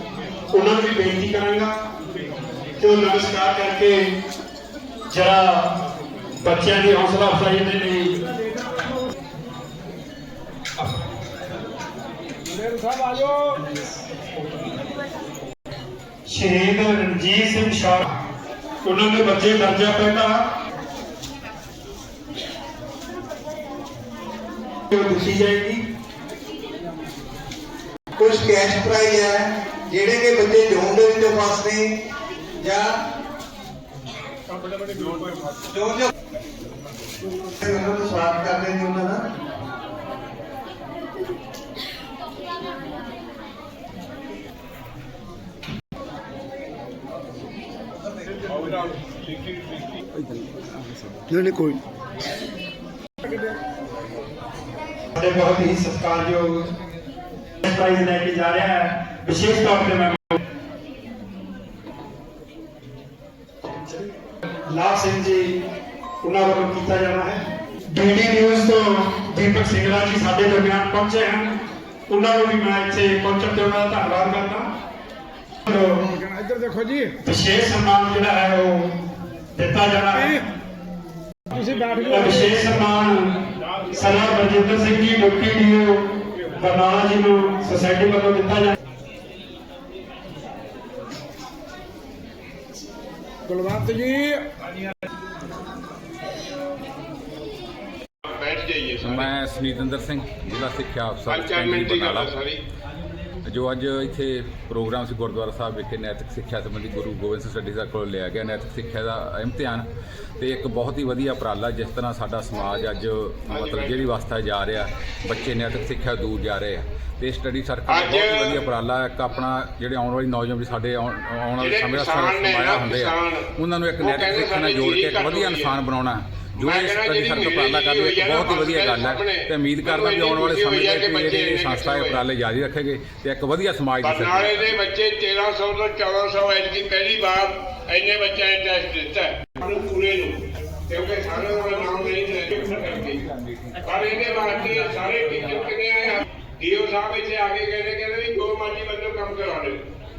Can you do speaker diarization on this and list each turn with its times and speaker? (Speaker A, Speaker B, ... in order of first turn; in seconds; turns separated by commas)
Speaker A: 0.5-1.7, Speaker A: 2.8-4.1, Speaker A: 5.1-5.7, Speaker A: 6.4-8.2, Speaker B: 12.5-13.6, Speaker A: 16.2-18.2, Speaker A: 18.8-20.4, Speaker A: 24.9-25.8, Speaker C: 28.1-32.0, Speaker C: 32.6-33.0, Speaker C: 35.7-36.1, Speaker C: 37.3-39.2, Speaker D: 48.4-49.6, Speaker C: 51.3-51.8, Speaker A: 55.1-56.7, Speaker A: 57.6-60.4, Speaker A: 64.7-65.6, Speaker A: 66.2-74.7, Speaker A: 75.6-76.2, Speaker B: 76.3-77.0, Speaker A: 77.2-79.0, Speaker A: 79.5-80.5, Speaker B: 81.5-81.9, Speaker A: 81.9-88.7, Speaker B: 93.5-94.5, Speaker D: 98.2-99.3, Speaker E: 99.0-102.3, Speaker D: 101.3-102.6, Speaker E: 103.4-109.9, Speaker E: 110.4-134.8, Speaker D: 113.5-114.0, Speaker D: 117.9-118.6, Speaker D: 121.6-125.7, Speaker D: 126.6-132.2, Speaker D: 134.0-143.2, Speaker D: 143.8-149.8